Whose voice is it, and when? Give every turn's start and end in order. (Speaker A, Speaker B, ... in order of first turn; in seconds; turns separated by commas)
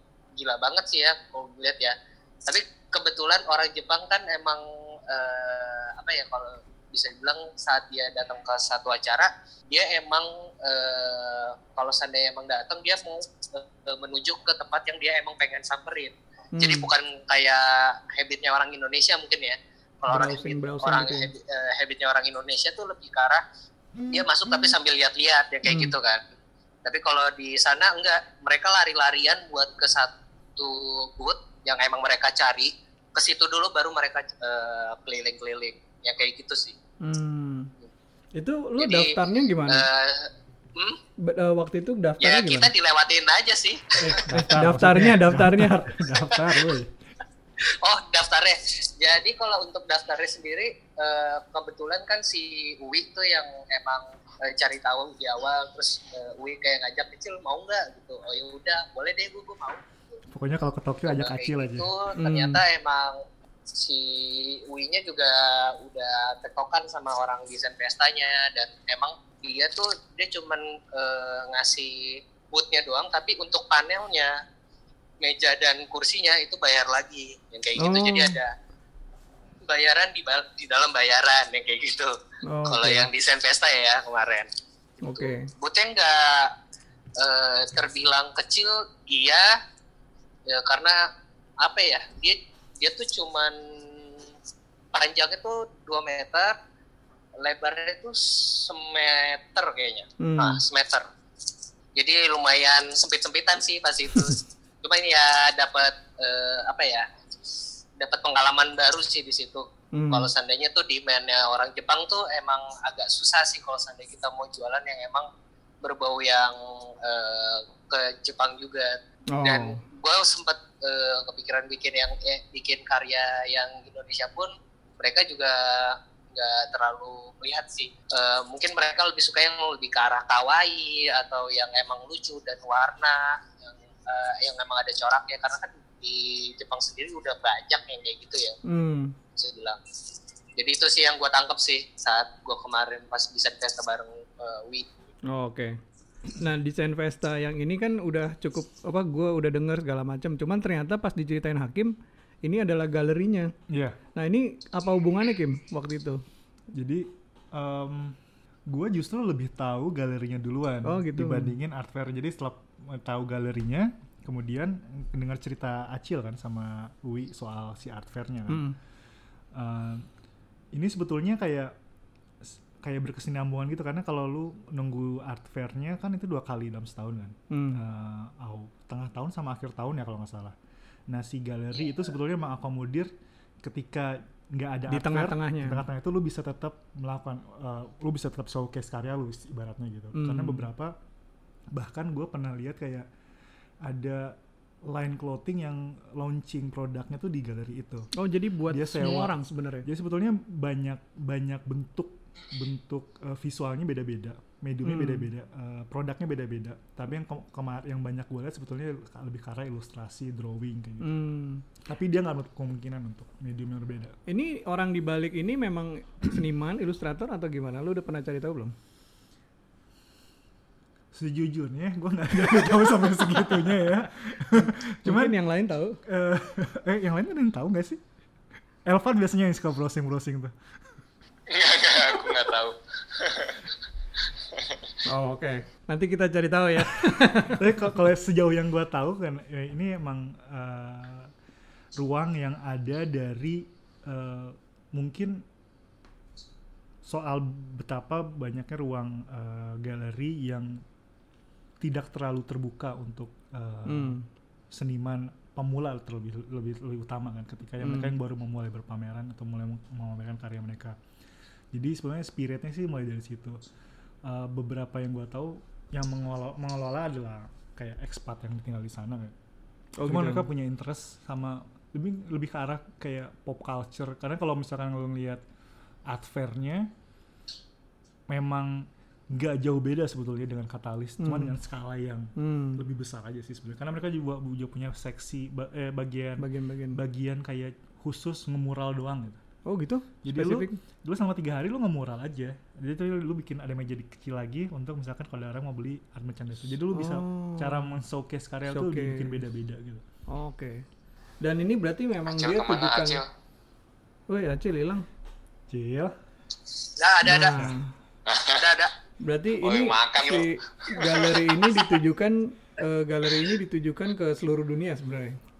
Speaker A: 0.3-23.4, Speaker B: 16.6-16.9, Speaker B: 20.1-21.3, Speaker B: 24.0-24.7, Speaker A: 24.1-26.2, Speaker B: 25.6-25.9, Speaker A: 26.8-36.8, Speaker B: 37.0-37.7, Speaker B: 38.3-39.9, Speaker A: 38.8-41.0, Speaker B: 41.2-42.7, Speaker A: 42.2-44.4, Speaker C: 44.0-46.9, Speaker B: 44.3-45.9, Speaker A: 47.8-60.2, Speaker C: 60.3-61.9, Speaker A: 61.0-74.3, Speaker B: 62.1-62.6, Speaker A: 75.2-78.5, Speaker B: 77.8-78.4, Speaker A: 79.6-82.1, Speaker B: 82.5-83.1, Speaker A: 82.7-84.5, Speaker B: 85.0-85.5, Speaker A: 85.0-86.5, Speaker A: 87.2-89.5, Speaker A: 90.5-91.0, Speaker A: 91.6-94.2, Speaker A: 94.9-96.5, Speaker A: 97.4-101.1, Speaker B: 100.2-100.6, Speaker A: 102.0-107.1, Speaker A: 108.0-115.3, Speaker B: 109.9-110.3, Speaker A: 115.8-138.6, Speaker B: 119.3-119.8, Speaker B: 138.7-139.2, Speaker A: 139.3-139.8, Speaker A: 140.6-144.8, Speaker B: 145.3-145.8, Speaker B: 146.3-153.5, Speaker C: 153.7-154.0, Speaker B: 154.2-156.2, Speaker C: 156.7-168.6, Speaker B: 160.8-161.5, Speaker B: 168.5-168.8, Speaker C: 169.5-170.1, Speaker C: 170.7-171.7, Speaker C: 172.4-180.6, Speaker B: 177.5-177.8, Speaker C: 181.1-183.1, Speaker C: 183.6-190.9, Speaker B: 184.9-185.8, Speaker B: 190.1-190.7, Speaker C: 191.7-193.1, Speaker C: 193.8-198.1, Speaker B: 198.1-199.9, Speaker C: 198.7-211.1, Speaker B: 204.8-205.3, Speaker B: 211.0-211.6, Speaker C: 211.8-214.2, Speaker B: 214.3-218.7, Speaker C: 221.1-225.3, Speaker B: 225.0-226.0, Speaker C: 226.1-228.0, Speaker C: 228.8-230.5, Speaker D: 231.5-233.6, Speaker D: 234.5-234.8, Speaker B: 235.1-237.7, Speaker C: 237.1-241.3, Speaker C: 241.9-245.4, Speaker C: 247.0-250.8, Speaker C: 251.8-254.2, Speaker B: 253.9-254.2, Speaker C: 254.7-261.0, Speaker B: 257.8-258.2, Speaker C: 261.7-263.6, Speaker C: 264.2-269.3, Speaker B: 270.0-270.5, Speaker C: 270.0-275.4, Speaker C: 276.1-276.9, Speaker C: 278.3-289.4, Speaker B: 281.2-281.5, Speaker B: 282.4-282.8, Speaker B: 286.4-287.0, Speaker B: 289.6-290.8, Speaker C: 290.2-300.0, Speaker B: 296.9-297.9, Speaker B: 298.7-299.4, Speaker B: 300.3-300.8, Speaker B: 301.4-303.2, Speaker D: 302.3-303.2, Speaker B: 304.3-305.1, Speaker C: 305.7-306.1, Speaker A: 307.0-307.7, Speaker B: 307.2-307.9, Speaker C: 307.5-307.8, Speaker D: 308.3-308.6, Speaker A: 308.5-308.9, Speaker B: 309.2-315.4, Speaker D: 309.5-311.4